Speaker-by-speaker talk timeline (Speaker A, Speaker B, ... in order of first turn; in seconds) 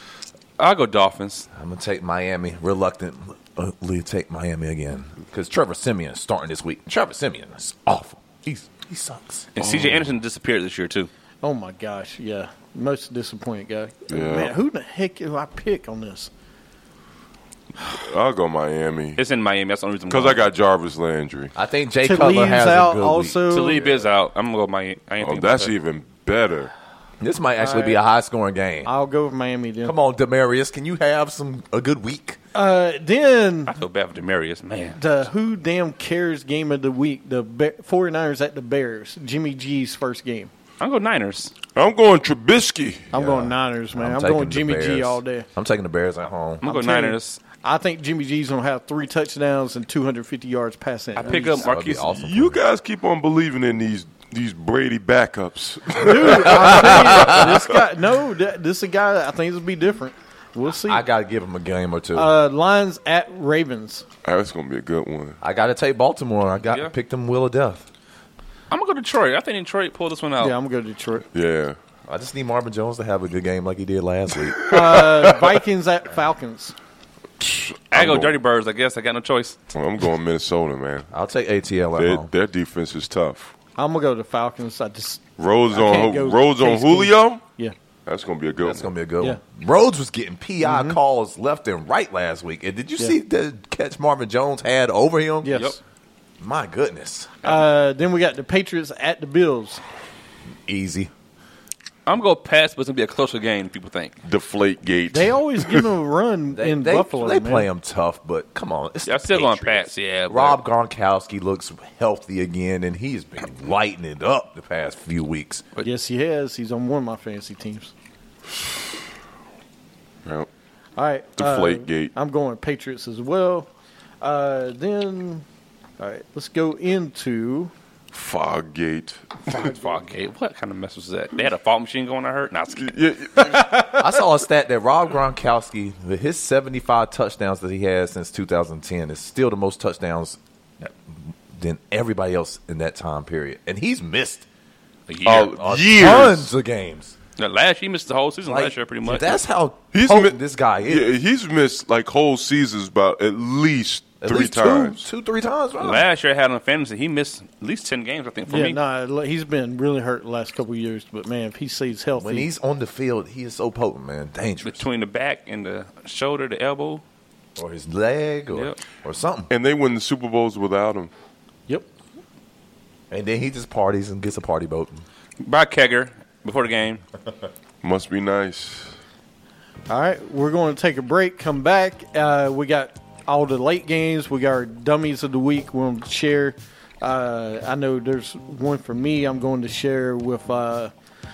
Speaker A: 0.6-1.4, 9.5-11.1, 19.2-20.4, 23.5-25.7, 33.7-35.1, 40.8-41.5, 46.6-47.4, 51.2-52.1, 68.7-70.5, 77.9-79.6, 102.0-104.2, 109.0-110.6, 129.5-132.9, 145.1-145.5, 147.4-149.4, 155.8-158.8, 164.6-167.0, 168.5-168.8, 175.4-177.0
Speaker B: 1.5-9.5, 21.5-23.7, 27.2-28.9, 29.8-32.4, 43.1-46.6, 51.2-52.6, 56.3-57.6, 60.7-62.3, 65.4-67.8, 72.1-75.1, 81.1-82.3, 88.6-95.6, 96.4-97.4, 100.7-101.1, 106.5-115.6, 133.6-144.4, 145.3-147.1, 148.4-151.1, 154.2-156.1, 162.1-164.8, 167.6-169.5, 173.1-175.0
Speaker C: 9.6-10.1, 14.1-14.5, 17.8-19.2, 20.1-21.5, 25.2-26.7, 41.7-43.1, 52.2-57.8, 64.2-65.4, 71.3-71.8, 74.6-75.4, 77.4-78.3, 79.7-81.1, 82.0-83.5, 85.4-87.4, 88.0-88.9, 104.2-105.8, 120.2-120.5, 121.4-122.1, 128.1-129.7, 132.8-133.9, 145.2-146.5, 149.9-155.0, 169.5-171.1, 177.8-178.9
Speaker D: 11.4-16.3, 22.0-23.8, 27.6-28.0, 28.8-29.9, 32.5-33.7, 35.0-40.5, 43.1-45.5, 46.6-51.7, 56.0-61.0, 62.1-64.0, 70.4-71.2, 74.7-76.7, 83.8-87.7, 90.6-91.0, 95.4-95.8, 97.4-99.8, 105.1-107.7, 115.8-117.9, 121.0-123.7, 124.2-125.4, 126.0-127.7, 133.4-134.0, 158.5-162.5, 179.9-190.9